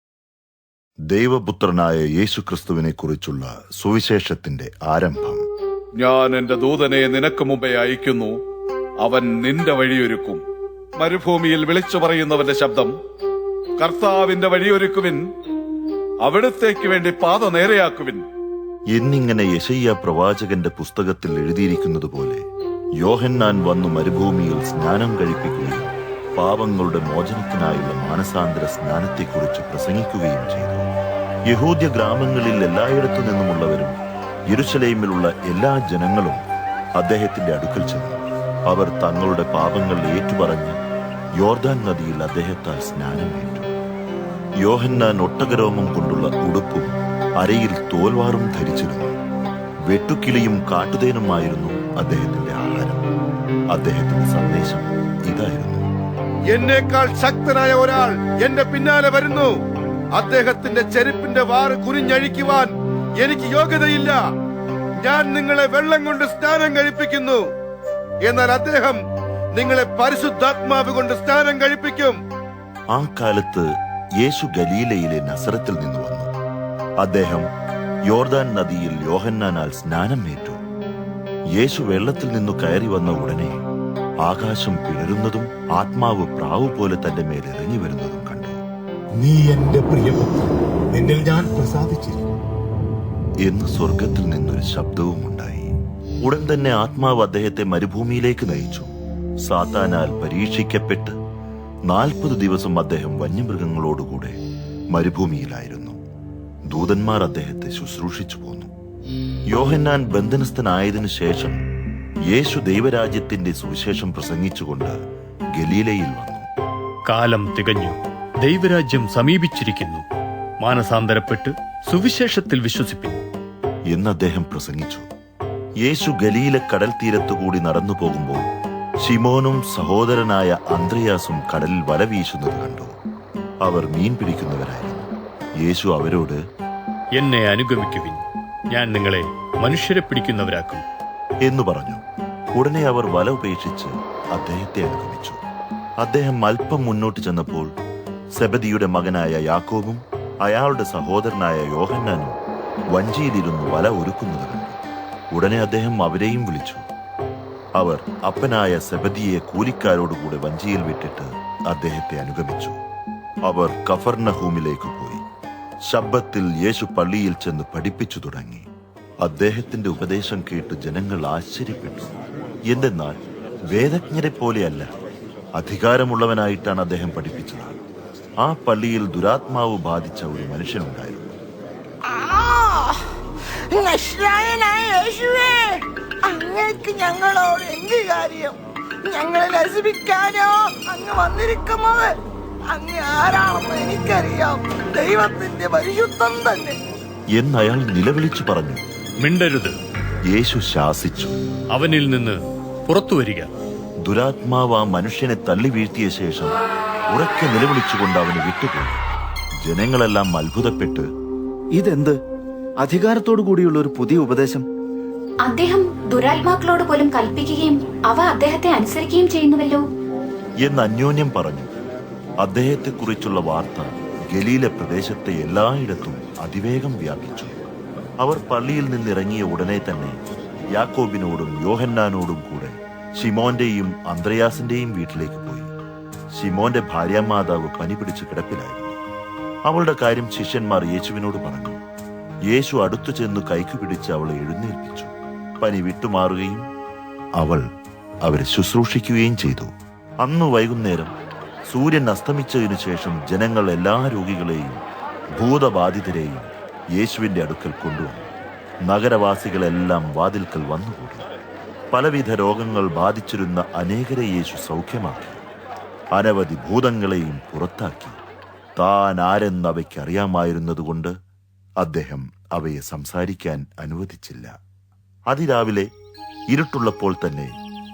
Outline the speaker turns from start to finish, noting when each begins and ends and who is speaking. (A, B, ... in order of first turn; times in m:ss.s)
0:01.1-0:05.4 A
0:06.0-0:08.4 B
0:09.0-0:10.4 B
0:11.0-0:12.9 B
0:13.8-0:15.2 B
0:16.2-0:18.2 B
0:18.9-0:22.4 A
0:23.0-0:30.9 A
0:31.5-0:33.9 A
0:34.5-0:36.4 A
0:37.0-0:40.8 A
0:41.4-0:43.7 A
0:44.6-0:49.1 A
0:49.9-0:53.0 A
0:53.7-0:55.8 A
0:56.5-0:59.5 C
1:00.1-1:02.7 C
1:03.2-1:04.2 C
1:05.0-1:07.4 C
1:08.2-1:09.0 C
1:09.6-1:12.2 C
1:12.9-1:13.6 A
1:14.2-1:16.3 A
1:17.0-1:17.5 A
1:18.1-1:20.6 A
1:21.6-1:23.6 A
1:24.2-1:28.6 A
1:29.4-1:30.5 D
1:31.4-1:32.2 D
1:33.4-1:35.7 A
1:36.2-1:38.9 A
1:39.4-1:41.1 A
1:41.9-1:44.4 A
1:44.9-1:46.0 A
1:46.7-1:48.7 A
1:49.5-1:51.6 A
1:52.3-1:55.0 A
1:55.6-1:56.5 A
1:57.1-2:00.0 E
2:00.6-2:03.2 E
2:03.9-2:05.0 A
2:05.8-2:08.4 A
2:09.0-2:12.9 A
2:13.6-2:15.1 A
2:15.6-2:16.4 A
2:17.2-2:20.8 E
2:21.4-2:22.0 A
2:22.6-2:25.4 A
2:26.0-2:27.7 A
2:28.4-2:32.3 A
2:32.9-2:34.8 A
2:35.3-2:36.8 A
2:37.8-2:42.8 A
2:43.5-2:45.2 A
2:45.9-2:48.6 A
2:49.2-2:52.2 A
2:52.7-2:53.2 A
2:53.7-2:54.9 A
2:55.6-2:57.8 A
2:58.4-3:01.3 A
3:02.0-3:03.1 F
3:03.7-3:12.2 F
3:12.7-3:16.8 F
3:17.4-3:18.8 A
3:19.2-3:19.7 E
3:20.3-3:21.3 A
3:21.7-3:23.5 E
3:24.0-3:26.5 A
3:27.1-3:29.0 A
3:29.6-3:31.0 A
3:31.7-3:32.2 G
3:32.8-3:34.6 G
3:35.4-3:39.8 H
3:40.6-3:41.7 A
3:42.4-3:47.5 A
3:48.2-3:50.2 A
3:50.7-3:55.7 A
3:56.3-3:59.0 A
3:59.7-4:01.8 A
4:02.5-4:06.6 A
4:07.4-4:07.6 A
4:08.2-4:09.7 A
4:10.2-4:11.1 A
4:11.7-4:14.8 A
4:15.4-4:18.3 A
4:18.9-4:21.3 A
4:21.9-4:25.4 A
4:26.1-4:28.2 A
4:28.8-4:31.1 A
4:31.8-4:34.5 A
4:35.3-4:35.9 A
4:36.5-4:37.5 A